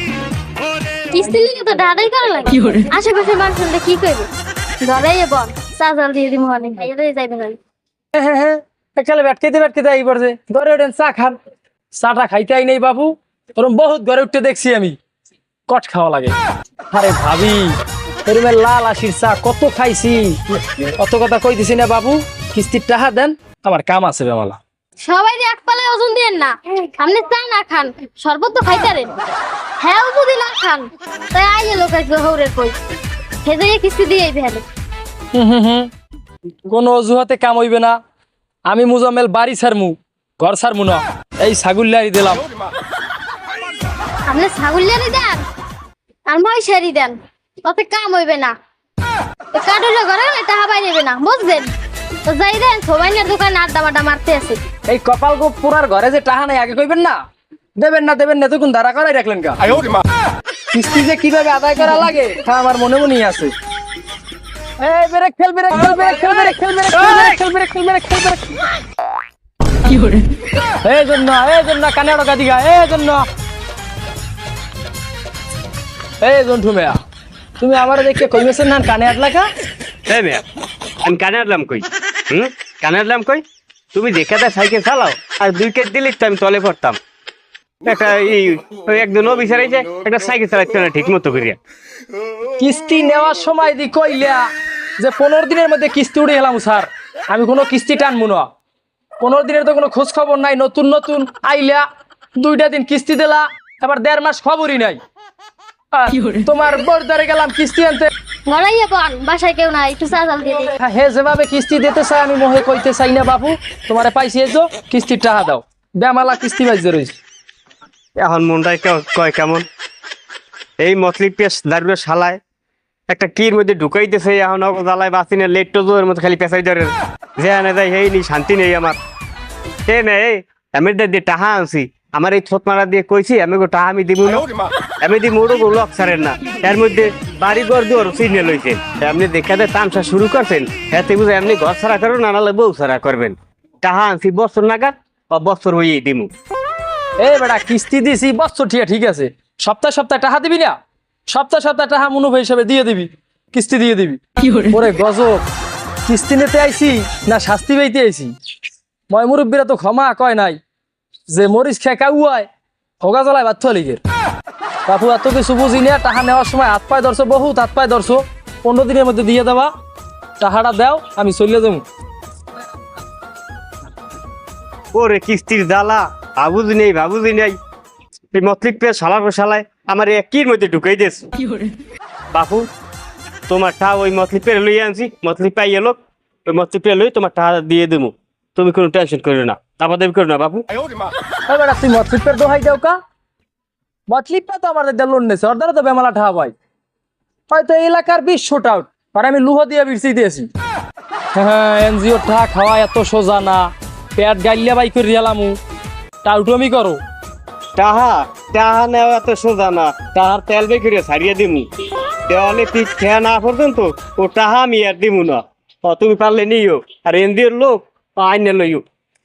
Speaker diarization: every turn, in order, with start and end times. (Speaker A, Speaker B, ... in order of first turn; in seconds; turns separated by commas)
Speaker A: 1.1-4.3, Speaker A: 4.8-7.6, Speaker B: 8.1-11.4, Speaker B: 12.0-15.0, Speaker B: 15.7-16.4, Speaker B: 16.9-24.6, Speaker A: 25.0-29.1, Speaker A: 29.8-32.8, Speaker A: 33.5-34.6, Speaker B: 35.3-35.9, Speaker B: 36.7-38.0, Speaker B: 38.7-42.5, Speaker A: 44.3-45.4, Speaker A: 46.3-48.6, Speaker A: 49.5-51.7, Speaker A: 52.3-54.6, Speaker B: 54.9-57.2, Speaker B: 57.8-59.6, Speaker B: 60.7-63.5, Speaker B: 64.8-68.5, Speaker B: 70.8-73.3, Speaker B: 76.2-77.0, Speaker B: 77.6-79.5, Speaker C: 80.1-80.4, Speaker C: 81.0-83.4, Speaker C: 83.9-87.0, Speaker C: 87.8-91.6, Speaker B: 92.6-94.5, Speaker B: 95.0-98.5, Speaker B: 99.2-101.9, Speaker B: 102.4-105.0, Speaker B: 105.9-108.1, Speaker A: 108.5-110.7, Speaker B: 110.8-117.2, Speaker C: 118.2-119.7, Speaker C: 120.8-122.4, Speaker C: 123.1-129.0, Speaker C: 129.9-134.5, Speaker C: 135.0-146.3, Speaker B: 147.2-150.8, Speaker B: 151.3-155.5, Speaker B: 156.1-158.3, Speaker B: 159.1-160.6, Speaker B: 161.3-162.5, Speaker B: 163.0-164.0, Speaker B: 164.9-169.7, Speaker B: 170.4-171.8, Speaker C: 174.9-177.6, Speaker C: 178.3-181.3, Speaker C: 182.3-182.7, Speaker C: 183.5-190.7, Speaker B: 191.5-193.0, Speaker B: 194.1-196.5, Speaker B: 197.5-200.5, Speaker B: 201.3-205.6, Speaker B: 206.2-207.0, Speaker C: 207.8-211.7, Speaker C: 212.3-218.8